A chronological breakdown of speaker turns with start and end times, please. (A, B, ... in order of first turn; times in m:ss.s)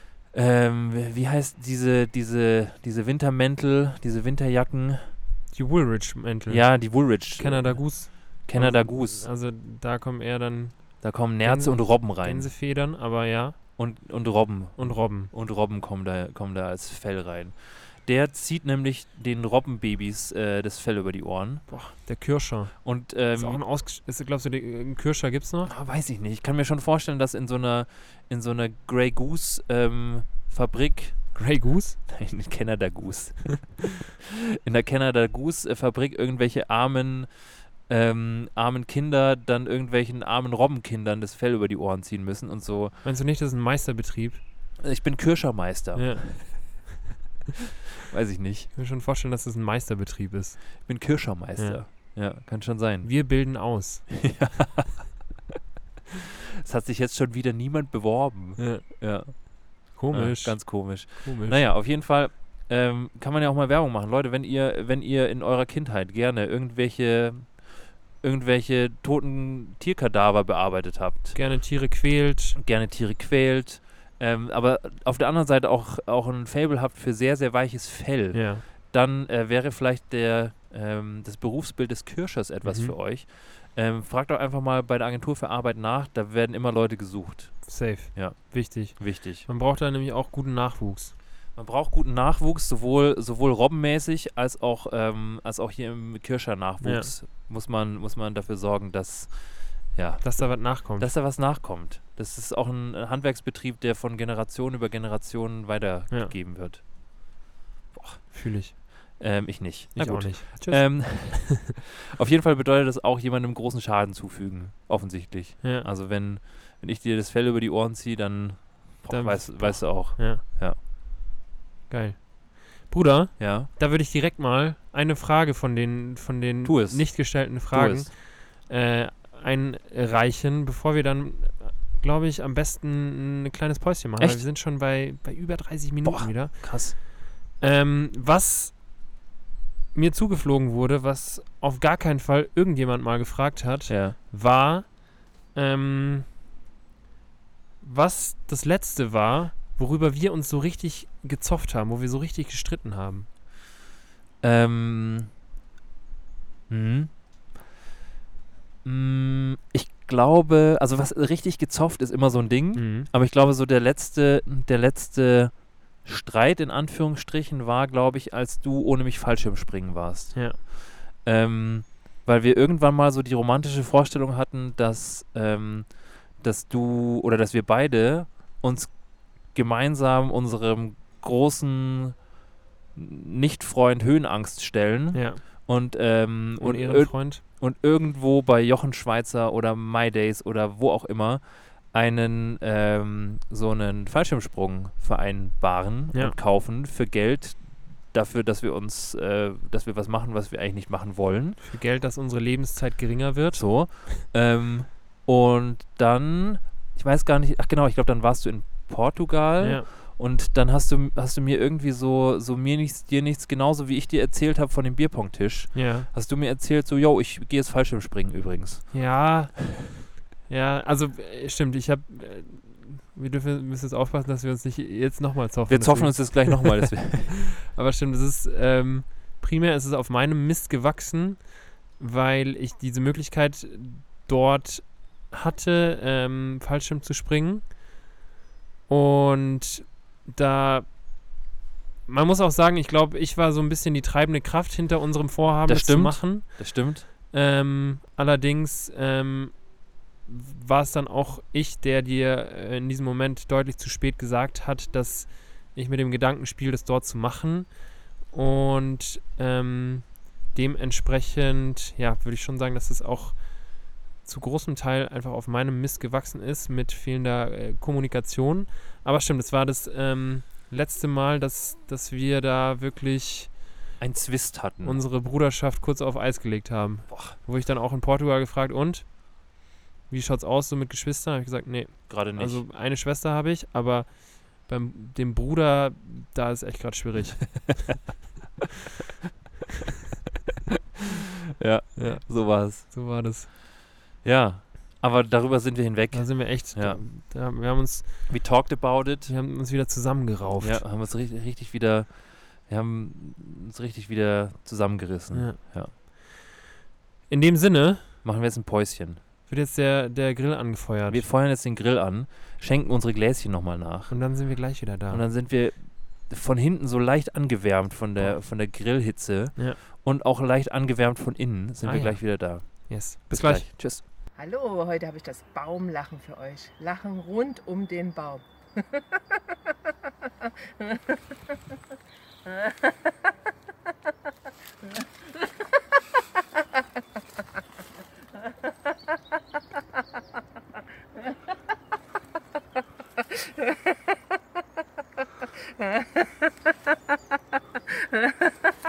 0:00.3-0:05.2 A
0:05.5-0:13.8 B
0:06.5-0:09.3 A
0:11.0-0:12.5 A
0:13.8-0:21.9 A
0:14.8-0:15.3 B
0:21.7-0:25.7 B
0:22.8-0:23.6 A
0:25.7-0:34.1 A
0:31.4-0:32.1 B
0:34.6-0:43.0 A
0:43.0-0:44.4 B
0:44.8-0:46.8 A
0:46.0-0:46.8 B
0:48.1-0:48.7 A
0:48.7-0:51.8 B
0:50.8-0:55.2 A
0:53.0-0:54.2 B
0:56.6-1:11.4 A
0:58.6-1:01.6 B
1:11.4-1:12.6 B
1:12.6-1:29.5 A
1:18.3-1:18.6 B
1:22.6-1:23.0 B
1:27.6-1:31.2 B
1:31.6-1:47.3 A
1:36.8-1:37.1 B
1:40.2-1:41.1 B
1:46.1-1:46.4 B
1:47.9-2:00.8 A
1:48.3-1:49.2 B
1:50.0-1:51.6 B
1:59.1-2:00.4 B
2:01.9-2:18.8 B
2:03.4-2:03.7 A
2:06.6-2:08.1 A
2:14.2-2:14.5 A
2:16.0-2:17.0 A
2:19.9-2:26.3 B
2:23.9-2:24.2 A
2:27.8-2:33.3 B
2:34.4-2:35.3 A
2:36.7-2:37.2 A
2:38.8-3:02.3 A
2:42.8-2:43.1 B
3:02.9-3:21.6 A
3:05.1-3:05.7 B
3:06.6-3:07.4 B
3:21.6-3:24.2 B
3:23.5-3:39.1 A
3:29.6-3:29.9 B
3:35.7-3:36.1 B
3:38.9-3:47.2 B
3:45.7-3:47.5 A
3:47.7-3:57.8 B
3:58.9-4:01.0 B
4:02.1-4:33.6 B
4:05.7-4:07.1 A
4:34.0-4:35.0 A
4:34.8-4:48.0 B
4:37.1-4:37.4 A
4:42.1-4:42.6 A
4:51.6-4:52.9 A
4:52.0-4:53.5 B
4:54.2-4:57.0 A
4:56.1-4:58.6 B
4:58.3-4:59.4 A
4:59.3-5:00.8 B
5:00.6-5:05.9 A
5:05.3-5:06.2 B
5:07.3-5:08.2 B
5:08.2-5:09.2 A
5:09.5-5:11.3 B
5:11.1-5:24.0 A
5:14.1-5:15.2 B
5:18.2-5:19.0 B
5:21.8-5:23.7 B
5:24.4-5:29.0 C
5:30.8-5:31.2 C